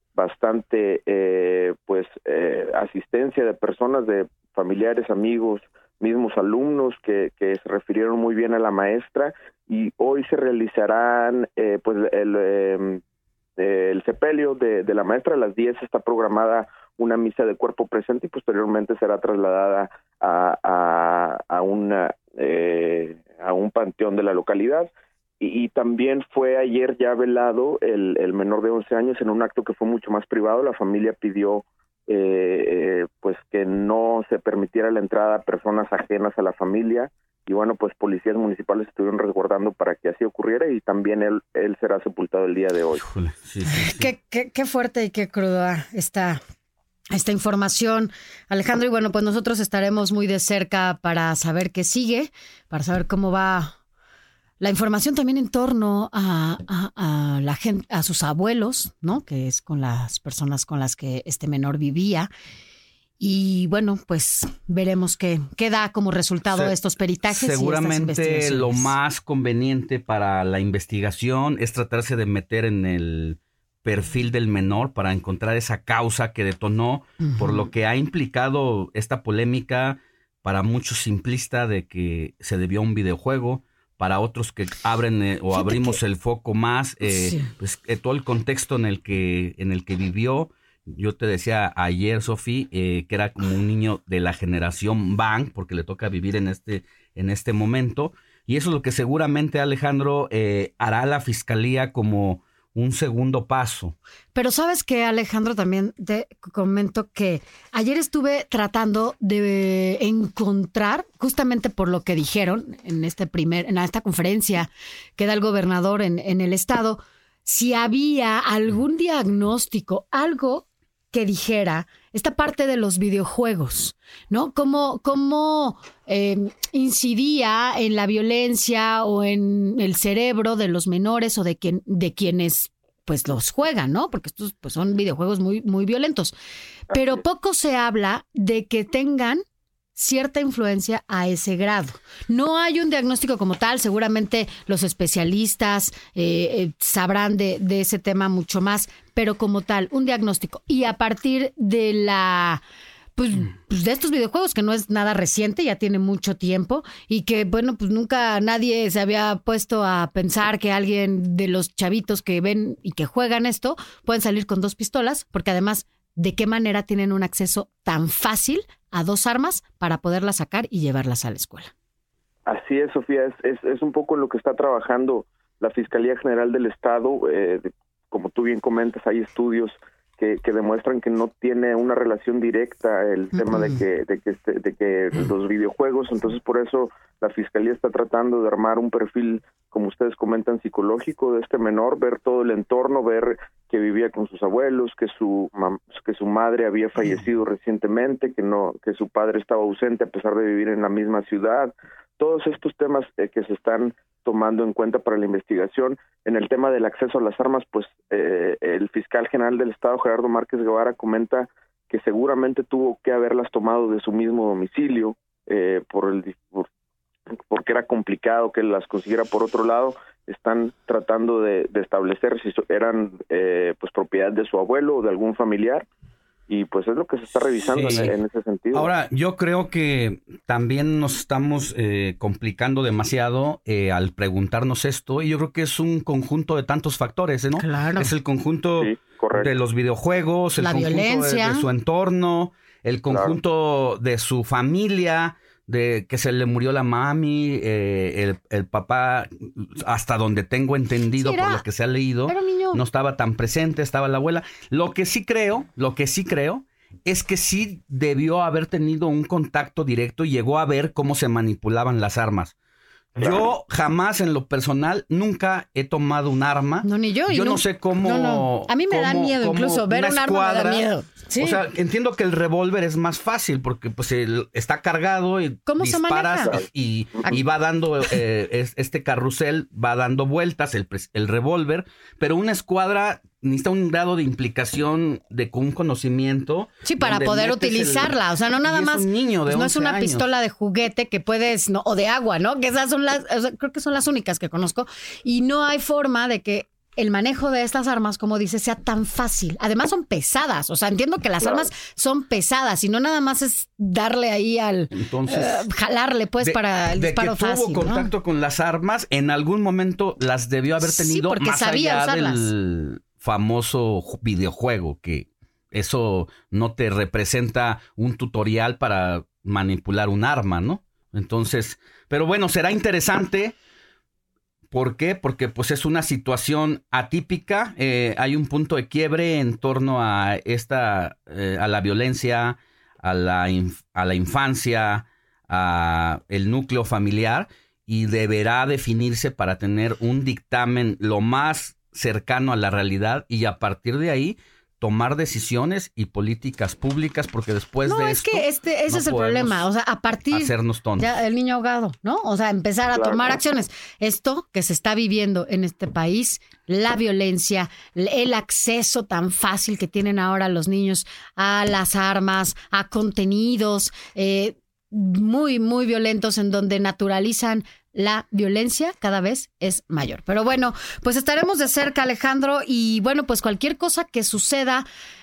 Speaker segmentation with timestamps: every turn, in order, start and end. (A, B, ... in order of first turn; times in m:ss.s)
0:00.2-0:13.0 A
0:13.6-0:24.9 A
0:25.4-0:43.0 A
0:43.0-0:44.1 B
0:43.6-0:46.4 C
0:47.1-0:53.7 C
0:54.6-1:02.3 C
1:03.2-1:08.9 C
1:06.5-1:06.8 B
1:07.3-1:44.0 B
1:17.2-1:17.6 C
1:25.5-1:26.0 C
1:27.1-1:27.5 C
1:44.3-2:16.3 C
2:16.9-2:19.4 C
2:20.0-2:32.6 C
2:33.2-2:51.7 C
2:52.4-3:36.6 A
3:37.3-3:45.8 A
3:46.5-3:48.9 A
3:47.6-3:48.2 B
3:48.7-4:22.5 B
3:57.6-3:58.1 C
3:58.8-3:59.5 A
4:00.6-4:01.7 C
4:03.1-4:03.4 A
4:11.2-4:11.6 C
4:12.2-4:12.8 C
4:23.2-4:30.8 B
4:23.2-4:23.5 A
4:26.8-4:31.6 C
4:31.4-4:50.3 B
4:35.6-4:36.6 C
4:46.8-5:08.1 C
5:01.4-5:01.7 A
5:04.9-5:05.7 B
5:06.4-5:23.5 B
5:10.8-5:12.5 C
5:24.7-5:49.7 B
5:47.8-6:14.8 C
5:50.3-5:51.1 B
5:52.9-5:53.4 A